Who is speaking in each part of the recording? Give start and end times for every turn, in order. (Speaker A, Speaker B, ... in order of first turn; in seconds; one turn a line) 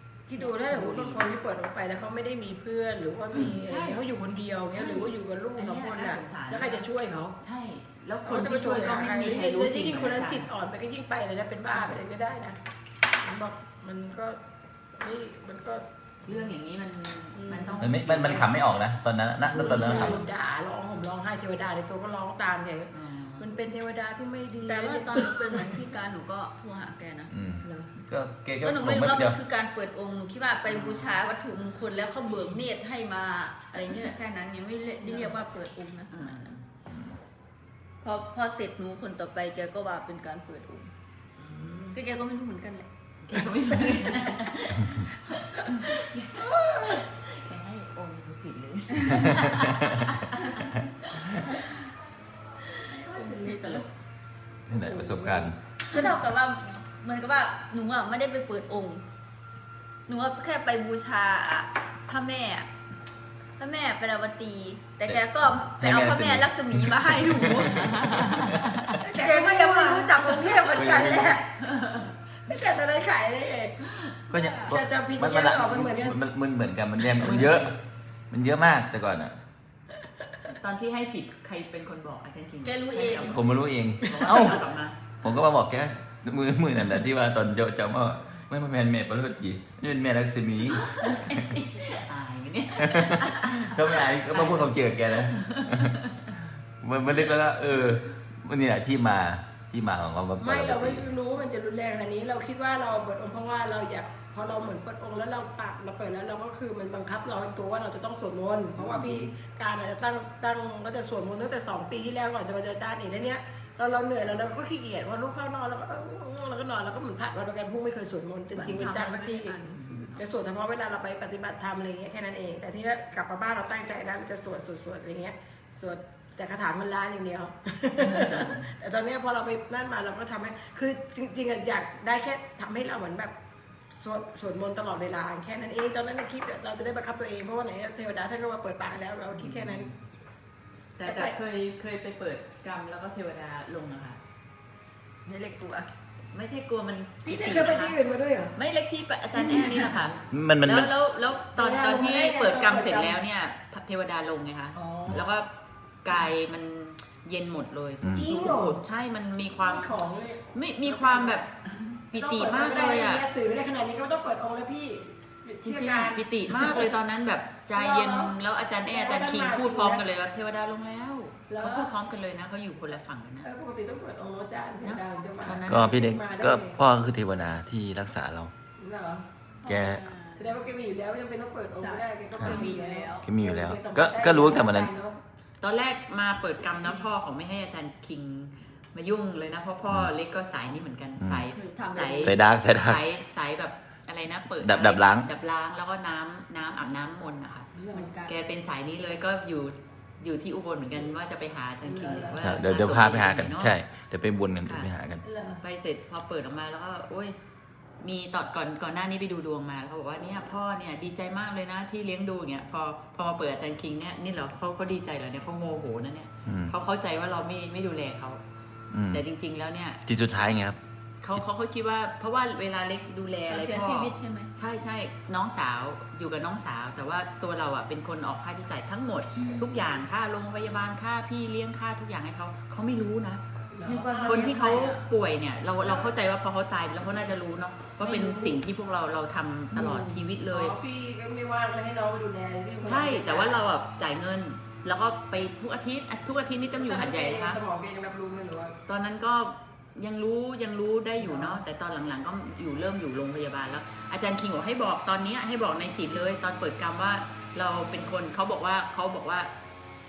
Speaker A: 0.3-7.4
Speaker B: 0.3-1.3
Speaker B: 3.3-4.0
Speaker B: 4.8-6.8
Speaker B: 7.4-10.5
Speaker A: 8.2-12.6
Speaker A: 13.2-14.4
Speaker A: 15.0-16.4
Speaker B: 16.3-18.4
Speaker C: 17.4-17.8
Speaker D: 17.8-20.2
Speaker A: 19.5-25.6
Speaker B: 19.7-20.2
Speaker B: 22.9-23.5
Speaker C: 24.6-27.8
Speaker D: 27.3-29.4
Speaker C: 28.6-36.4
Speaker B: 30.7-31.2
Speaker B: 33.7-34.1
Speaker B: 35.0-35.4
Speaker B: 36.1-36.6
Speaker C: 38.0-40.9
Speaker A: 41.4-42.0
Speaker C: 41.9-42.9
Speaker B: 43.2-50.8
Speaker A: 46.4-47.0
Speaker D: 49.1-50.1
Speaker B: 51.3-51.8
Speaker C: 52.8-53.8
Speaker A: 53.0-53.8
Speaker B: 53.3-53.8
Speaker D: 54.7-55.6
Speaker A: 54.7-55.5
Speaker C: 55.9-59.0
Speaker C: 60.1-62.7
Speaker C: 63.6-68.3
Speaker D: 65.0-68.8
Speaker B: 67.6-68.9
Speaker A: 69.0-71.2
Speaker C: 69.1-71.5
Speaker D: 70.7-71.4
Speaker B: 71.6-72.1
Speaker A: 72.5-73.8
Speaker C: 74.3-74.7
Speaker D: 74.3-77.7
Speaker A: 74.7-76.2
Speaker B: 77.2-77.7
Speaker D: 78.3-79.4
Speaker B: 80.5-83.5
Speaker C: 82.6-83.4
Speaker D: 83.3-84.6
Speaker B: 84.0-85.0
Speaker D: 85.2-91.5
Speaker B: 90.7-96.4
Speaker D: 92.8-96.0
Speaker D: 96.8-101.1
Speaker A: 100.4-133.3
Speaker B: 108.8-109.2
Speaker C: 118.6-120.2
Speaker B: 128.0-128.7
Speaker A: 133.9-139.9
Speaker B: 139.3-139.9
Speaker B: 141.0-144.2
Speaker A: 141.0-141.4
Speaker C: 145.2-145.9
Speaker B: 146.3-148.0
Speaker A: 147.2-148.5
Speaker B: 148.6-155.5
Speaker A: 149.3-150.1
Speaker D: 150.3-150.9
Speaker A: 151.6-153.2
Speaker A: 154.7-155.2
Speaker B: 156.0-160.0
Speaker D: 158.0-158.3
Speaker A: 158.2-158.8
Speaker A: 159.6-161.5
Speaker B: 160.5-161.5
Speaker B: 162.1-163.2
Speaker A: 162.1-166.9
Speaker B: 165.6-173.5
Speaker A: 167.7-168.3
Speaker A: 168.9-170.0
Speaker A: 171.5-171.9
Speaker A: 173.4-176.8
Speaker B: 174.8-176.0
Speaker D: 175.7-178.5
Speaker A: 178.8-179.2
Speaker C: 179.6-180.5
Speaker D: 179.6-180.0
Speaker A: 180.3-185.2
Speaker C: 181.8-183.3
Speaker D: 182.3-182.6
Speaker D: 183.2-184.9
Speaker B: 185.6-197.7
Speaker D: 191.2-191.4
Speaker C: 191.5-192.4
Speaker D: 192.2-193.0
Speaker D: 194.6-195.3
Speaker A: 197.8-198.1
Speaker C: 197.9-198.3
Speaker B: 198.3-203.7
Speaker A: 201.8-202.4
Speaker D: 202.4-205.2
Speaker C: 205.2-205.6
Speaker B: 205.6-207.4
Speaker B: 208.0-218.4
Speaker D: 216.4-216.7
Speaker D: 218.9-219.2
Speaker B: 219.1-220.0
Speaker D: 220.1-220.8
Speaker B: 221.2-233.4
Speaker C: 223.5-224.5
Speaker A: 233.7-234.9
Speaker C: 233.8-235.0
Speaker B: 234.2-240.7
Speaker A: 235.8-236.1
Speaker A: 238.0-238.5
Speaker C: 238.1-238.4
Speaker A: 239.7-243.7
Speaker B: 242.8-247.6
Speaker A: 246.7-248.8
Speaker B: 248.9-259.5
Speaker A: 251.2-251.6